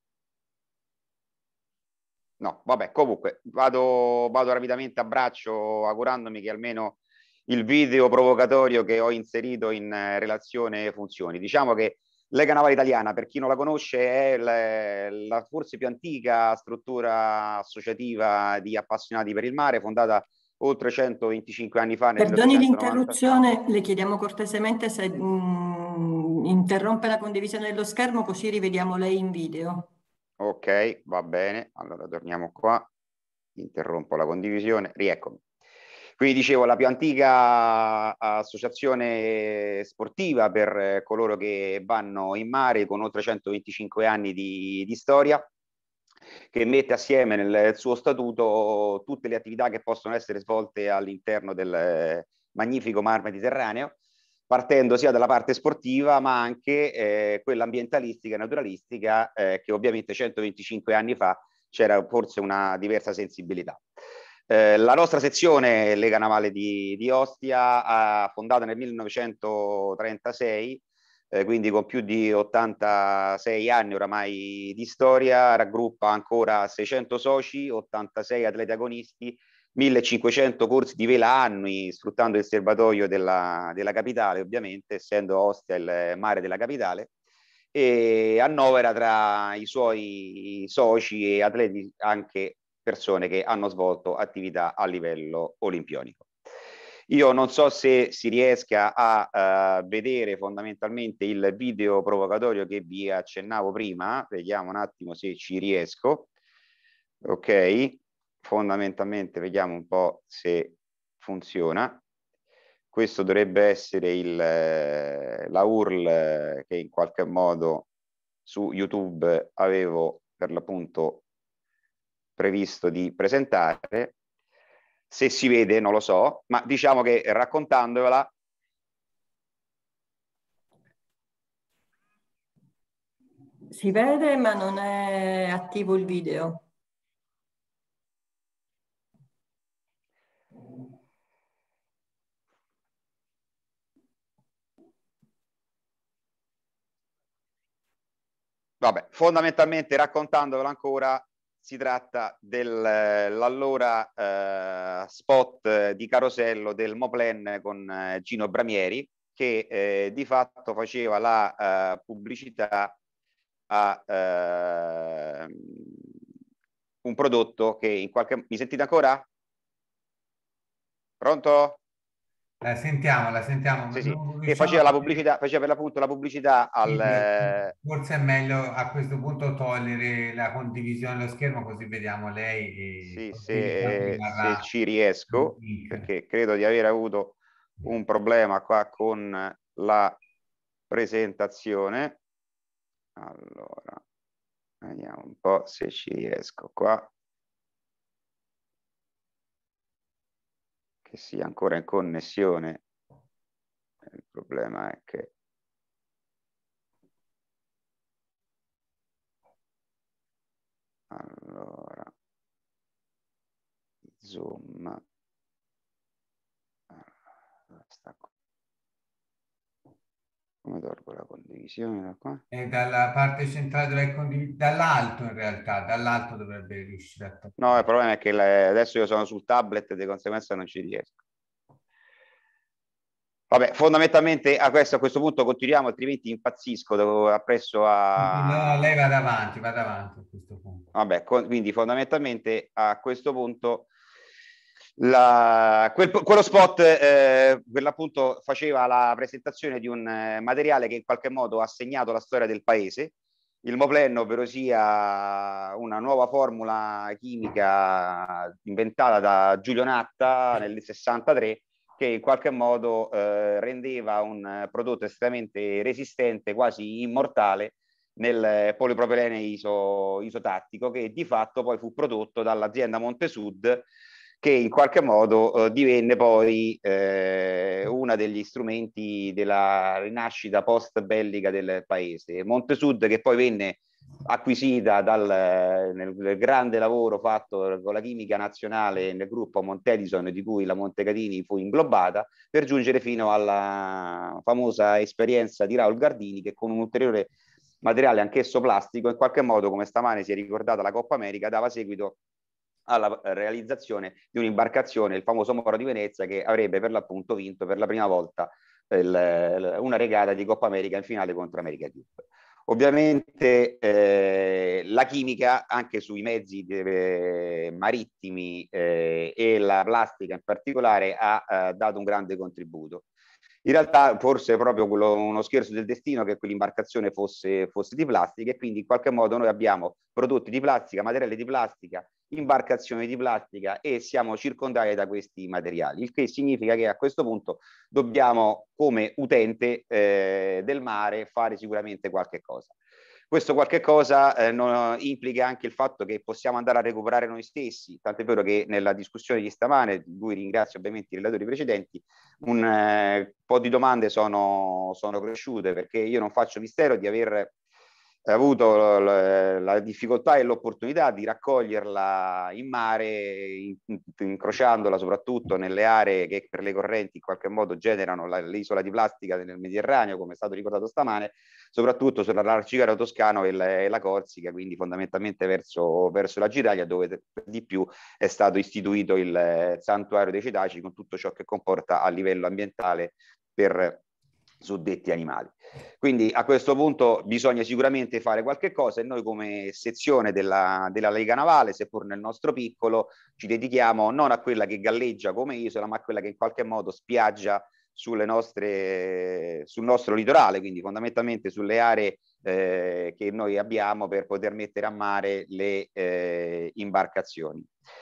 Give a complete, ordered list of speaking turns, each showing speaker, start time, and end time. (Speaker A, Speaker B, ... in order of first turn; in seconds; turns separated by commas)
Speaker A: 2.4-23.4, Speaker B: 22.2-29.9, Speaker A: 30.4-32.9, Speaker A: 33.6-35.4, Speaker A: 36.2-45.5, Speaker A: 46.5-53.9, Speaker A: 54.5-63.8, Speaker A: 64.5-87.1, Speaker A: 87.7-96.3, Speaker A: 97.1-106.3, Speaker A: 107.2-112.0, Speaker A: 112.9-117.9, Speaker A: 118.5-121.2, Speaker A: 122.4-124.1, Speaker A: 125.1-128.3, Speaker B: 133.7-136.6, Speaker A: 148.8-162.9, Speaker A: 163.7-165.9, Speaker A: 167.0-169.2, Speaker A: 171.2-171.8, Speaker C: 172.6-175.2, Speaker A: 173.9-177.7, Speaker C: 176.8-184.7, Speaker A: 183.0-190.2, Speaker C: 185.3-186.1, Speaker A: 190.9-192.2, Speaker A: 193.2-194.0, Speaker A: 194.8-197.1, Speaker A: 201.1-202.8, Speaker A: 204.1-205.3, Speaker A: 211.1-212.1, Speaker A: 214.2-215.0, Speaker A: 217.8-218.3, Speaker A: 220.6-222.4, Speaker C: 222.5-227.8, Speaker A: 227.6-231.2, Speaker A: 233.5-238.9, Speaker C: 238.2-240.9, Speaker A: 240.9-243.9, Speaker A: 245.0-253.1, Speaker A: 253.6-273.9, Speaker A: 274.4-297.3, Speaker A: 297.8-302.1, Speaker A: 302.9-323.1, Speaker A: 323.6-342.7, Speaker A: 343.3-357.5, Speaker A: 358.3-384.0, Speaker A: 384.6-407.7